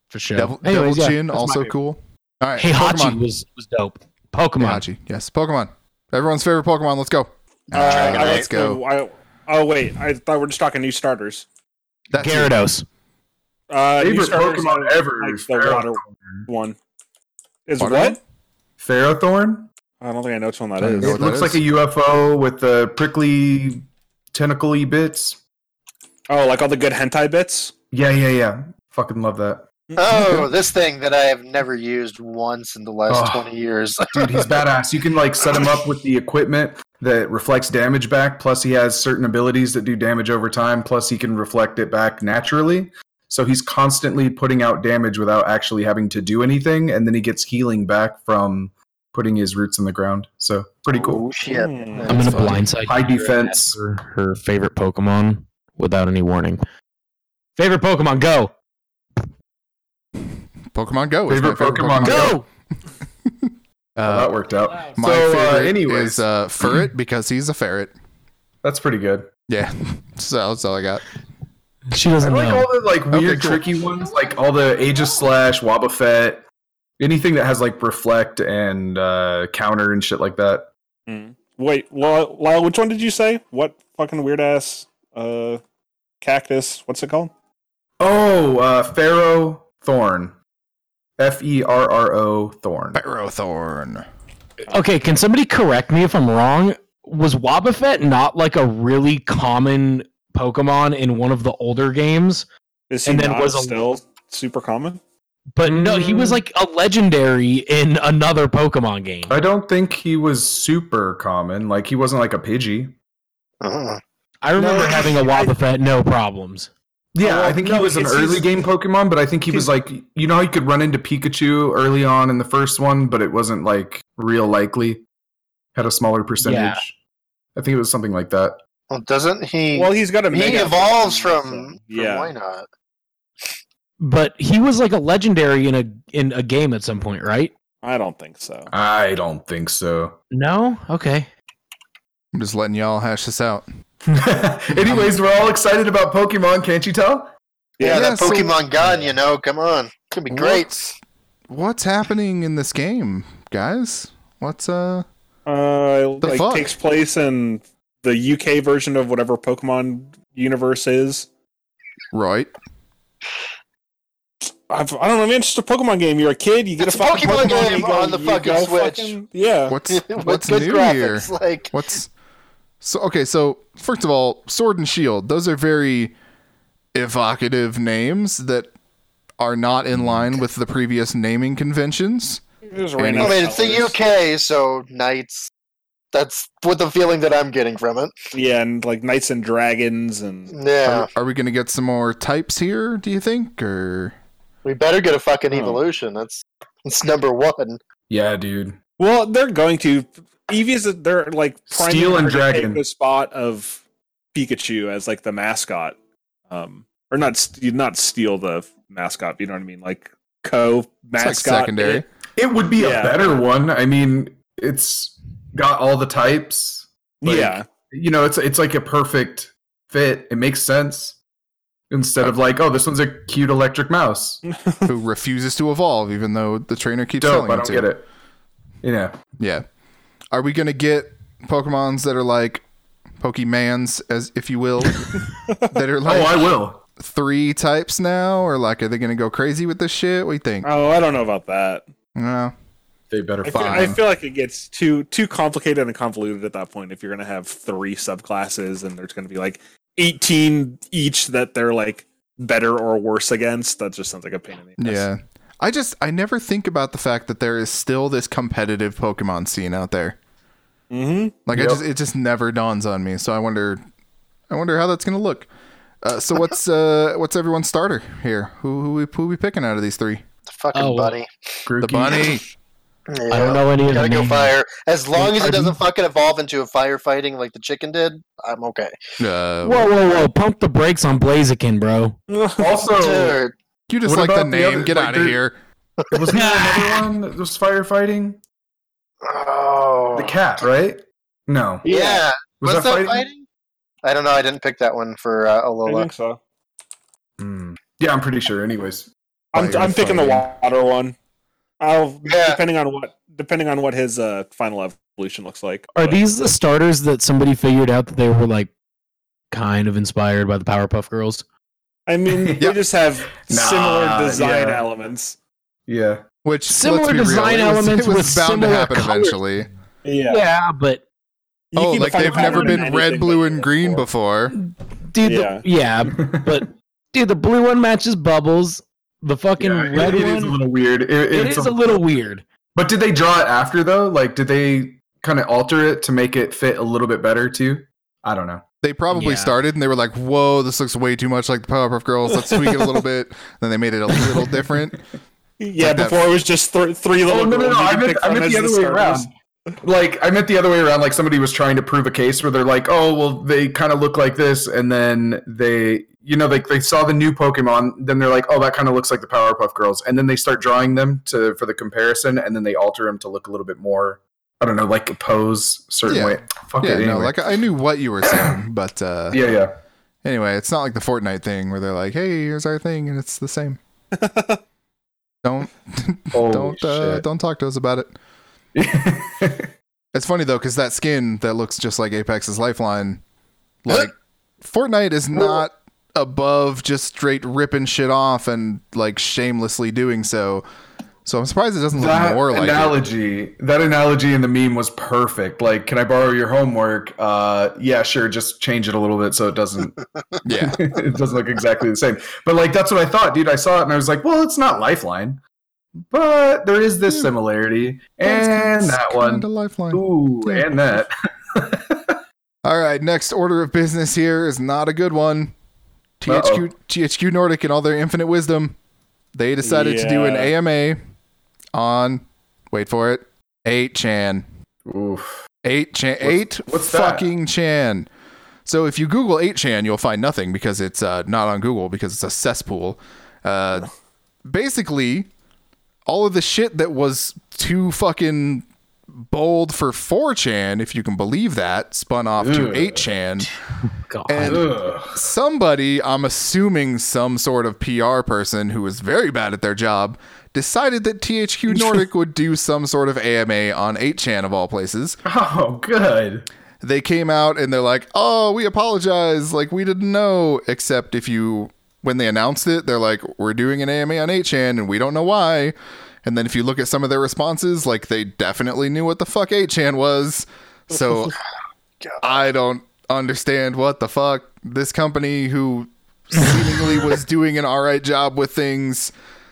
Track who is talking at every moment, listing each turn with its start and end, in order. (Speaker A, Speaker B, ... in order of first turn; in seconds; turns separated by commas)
Speaker A: 0.1-1.7, Speaker B: 0.4-3.2, Speaker A: 2.6-4.8, Speaker B: 4.6-8.8, Speaker C: 7.7-8.5, Speaker D: 7.8-11.5, Speaker B: 12.1-12.5, Speaker A: 12.2-12.8, Speaker D: 13.7-16.8, Speaker E: 14.0-16.4, Speaker D: 17.7-18.2, Speaker B: 17.8-18.2, Speaker E: 18.8-19.7, Speaker D: 20.0-21.2, Speaker B: 20.8-21.6, Speaker E: 21.0-25.4, Speaker D: 26.3-27.7, Speaker E: 27.9-29.7, Speaker D: 29.9-30.3, Speaker C: 30.0-34.6, Speaker E: 33.1-33.5, Speaker E: 34.1-51.3, Speaker C: 50.9-52.6, Speaker D: 51.4-52.3, Speaker A: 52.1-56.6, Speaker B: 52.1-52.7, Speaker E: 52.8-53.8, Speaker A: 57.6-58.5, Speaker B: 60.7-62.4, Speaker E: 61.3-62.4, Speaker A: 62.0-62.5, Speaker B: 63.2-64.3, Speaker E: 64.0-66.8, Speaker B: 65.0-67.9, Speaker E: 68.6-69.3, Speaker B: 69.5-71.0, Speaker A: 71.9-72.7, Speaker E: 72.2-76.4, Speaker B: 73.1-73.7, Speaker E: 77.0-80.7, Speaker D: 81.1-85.6, Speaker D: 86.2-87.3, Speaker E: 88.0-90.3, Speaker E: 91.2-93.0, Speaker B: 92.9-94.1, Speaker A: 94.7-102.5, Speaker D: 102.9-105.0, Speaker A: 103.1-103.8, Speaker A: 105.6-109.4, Speaker E: 105.7-106.0, Speaker E: 109.3-113.0, Speaker C: 113.6-114.0, Speaker A: 114.4-116.7, Speaker E: 114.6-115.0, Speaker D: 114.8-115.5, Speaker E: 117.1-125.0, Speaker D: 117.2-118.6, Speaker E: 125.8-127.0, Speaker A: 126.4-126.8, Speaker E: 127.6-128.6, Speaker C: 128.9-132.7, Speaker D: 129.7-132.3, Speaker A: 134.0-137.5, Speaker D: 137.8-138.7, Speaker E: 138.7-140.2, Speaker A: 140.3-141.3, Speaker B: 142.3-143.7, Speaker E: 144.1-147.3, Speaker B: 144.8-145.1, Speaker D: 147.8-148.4, Speaker C: 147.8-150.9, Speaker B: 147.9-148.6, Speaker B: 150.3-150.9, Speaker B: 151.5-155.1, Speaker D: 155.5-161.3, Speaker B: 156.2-156.7, Speaker B: 162.1-162.5, Speaker D: 164.5-169.8, Speaker C: 166.8-169.2, Speaker B: 169.7-172.1, Speaker C: 169.9-171.7, Speaker B: 172.8-176.1, Speaker B: 176.9-178.7, Speaker B: 179.4-182.4, Speaker D: 182.7-184.0, Speaker B: 183.0-183.4, Speaker C: 183.2-185.5, Speaker C: 186.1-188.1, Speaker D: 188.3-190.5, Speaker C: 190.5-191.1, Speaker B: 190.8-194.2, Speaker C: 194.7-197.8, Speaker D: 195.5-195.8, Speaker E: 198.1-198.8, Speaker D: 199.0-203.8, Speaker E: 201.7-202.8, Speaker D: 204.3-206.0, Speaker D: 206.5-212.0, Speaker B: 211.2-212.1, Speaker E: 212.4-221.2, Speaker D: 212.8-213.4, Speaker D: 217.2-217.7, Speaker E: 221.9-224.4, Speaker D: 224.5-224.9, Speaker B: 224.9-227.9, Speaker E: 227.2-228.1, Speaker E: 228.8-229.2, Speaker B: 229.4-229.6, Speaker B: 230.3-232.6, Speaker B: 233.2-240.7, Speaker E: 236.0-236.8, Speaker D: 240.6-241.8, Speaker B: 242.2-242.5, Speaker E: 243.1-244.0, Speaker D: 243.4-255.1, Speaker B: 243.5-244.0, Speaker B: 254.8-260.2, Speaker D: 260.9-261.4, Speaker B: 261.5-263.8, Speaker E: 261.5-261.8, Speaker B: 264.5-265.5, Speaker B: 266.0-270.2, Speaker C: 270.5-272.2, Speaker A: 270.7-271.2, Speaker E: 271.7-272.3, Speaker B: 271.8-272.4, Speaker C: 273.1-278.9, Speaker A: 273.3-274.5, Speaker A: 275.1-275.8, Speaker B: 279.2-279.9, Speaker A: 279.6-282.2, Speaker D: 282.3-282.7, Speaker E: 282.6-283.4, Speaker C: 283.0-283.5, Speaker B: 283.9-285.6, Speaker E: 284.0-285.4, Speaker E: 286.1-288.4, Speaker A: 286.3-287.1, Speaker C: 289.2-290.4, Speaker E: 290.1-293.3, Speaker C: 291.9-293.4, Speaker D: 291.9-292.2, Speaker C: 294.0-296.1, Speaker D: 295.9-296.4, Speaker E: 297.4-299.1, Speaker D: 299.5-301.1, Speaker B: 299.6-300.5, Speaker D: 301.8-306.2, Speaker C: 302.3-302.6, Speaker A: 305.9-308.7, Speaker A: 309.5-311.4, Speaker D: 312.1-315.4, Speaker E: 312.3-312.8, Speaker E: 313.3-314.8, Speaker E: 315.9-316.2, Speaker B: 316.4-319.7, Speaker A: 316.7-319.4, Speaker D: 320.0-320.4, Speaker A: 320.3-321.0, Speaker D: 321.7-324.1, Speaker B: 321.8-324.6, Speaker A: 324.5-330.6, Speaker D: 325.2-325.6, Speaker E: 326.1-326.6, Speaker E: 329.6-331.8, Speaker A: 331.3-332.4, Speaker E: 332.8-338.6, Speaker B: 338.8-345.0, Speaker A: 339.1-339.6, Speaker D: 342.3-343.0, Speaker D: 345.6-349.3, Speaker B: 345.8-346.3, Speaker E: 347.3-349.3, Speaker E: 349.8-367.4, Speaker B: 366.1-369.5, Speaker E: 368.3-368.5, Speaker E: 369.3-369.8, Speaker B: 370.2-373.8, Speaker D: 374.1-374.6, Speaker B: 375.4-378.1, Speaker E: 376.3-377.2, Speaker E: 378.8-379.7, Speaker B: 380.1-383.2, Speaker B: 383.9-390.6, Speaker E: 385.4-385.6, Speaker B: 391.2-393.0, Speaker E: 391.9-399.9, Speaker B: 400.4-400.8, Speaker E: 400.6-405.4, Speaker E: 406.1-412.2, Speaker B: 408.2-410.8, Speaker B: 412.6-415.5, Speaker B: 416.2-418.8, Speaker E: 416.3-416.7, Speaker B: 419.3-421.0, Speaker D: 419.6-420.5, Speaker B: 421.8-424.4, Speaker E: 424.9-425.4, Speaker B: 425.6-428.1, Speaker E: 426.2-427.3, Speaker B: 428.7-433.9, Speaker B: 434.4-435.3, Speaker B: 436.1-438.7, Speaker B: 439.3-443.5, Speaker E: 442.4-443.1, Speaker A: 443.8-444.7, Speaker B: 444.3-455.2, Speaker E: 444.4-445.2, Speaker E: 455.2-456.5, Speaker B: 456.8-471.4, Speaker B: 472.2-479.1